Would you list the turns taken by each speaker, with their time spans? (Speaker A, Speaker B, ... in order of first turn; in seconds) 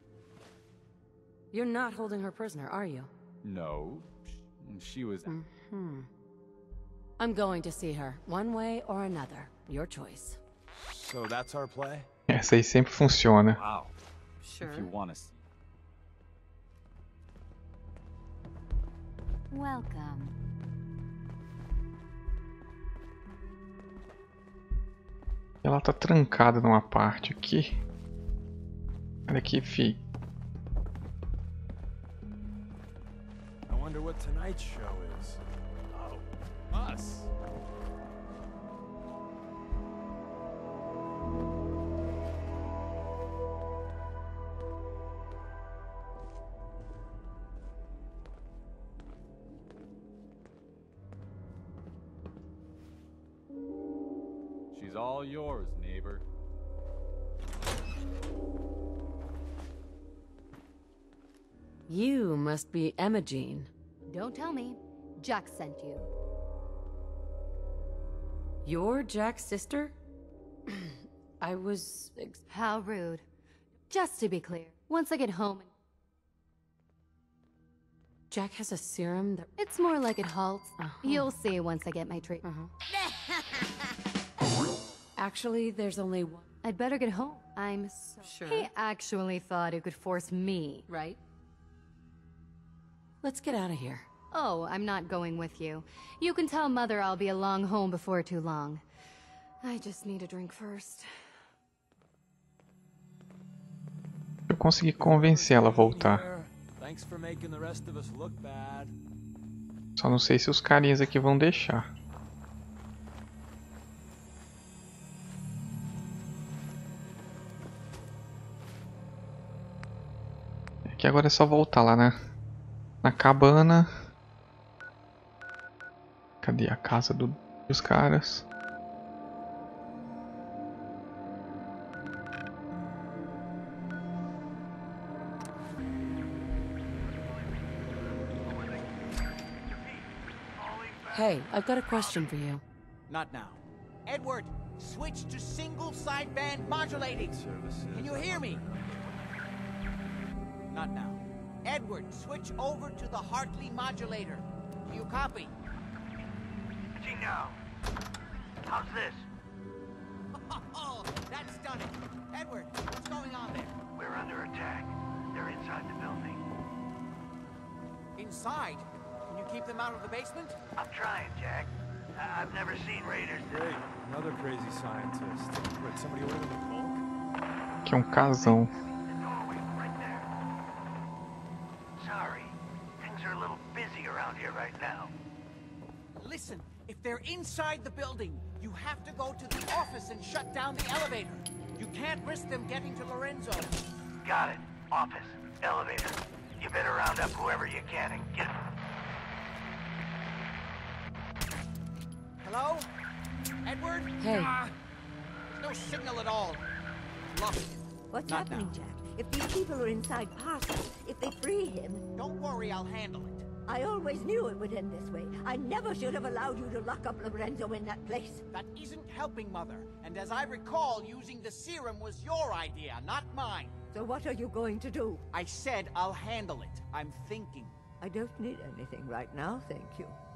Speaker A: 1.5-3.1, 5.2-6.1, 7.2-10.4, 61.9-63.7, 68.6-69.9, 70.7-72.4, 78.3-79.5, 80.8-81.3, 82.4-82.7, 85.2-86.5, 88.2-88.7, 93.2-94.1, 141.1-142.6, 204.2-204.6
Speaker B: 3.4-5.3, 13.5-13.9, 14.5-15.4, 54.7-56.2
Speaker C: 10.7-12.1, 33.7-35.4, 35.9-37.3, 104.9-108.9, 146.8-149.3, 173.5-177.0
Speaker D: 12.3-13.6, 25.6-27.7, 29.3-30.0, 104.5-106.3, 110.0-111.9, 120.9-122.2, 123.0-123.9, 126.4-128.4, 177.8-178.7
Speaker E: 19.5-20.3, 64.1-66.1, 72.5-73.2, 73.9-75.7, 79.6-82.4, 86.6-90.8, 94.3-98.8, 99.6-101.0
Speaker F: 143.1-148.7, 150.7-155.5, 160.3-163.8, 168.2-170.6, 186.2-193.7, 202.4-202.9, 203.6-204.1, 205.5-206.6, 207.3-208.8, 212.2-213.4, 218.5-223.8, 225.3-227.7
Speaker G: 157.0-157.4, 158.7-159.2, 164.0-164.8, 165.4-166.4, 170.8-171.7, 172.2-173.6, 179.6-179.9, 197.2-198.2
Speaker H: 164.3-164.8, 165.3-165.8, 182.0-182.5, 183.0-185.1, 194.3-195.0, 195.6-196.1, 196.6-198.4
Speaker I: 208.1-212.0, 213.7-218.4, 223.9-225.2, 228.0-230.2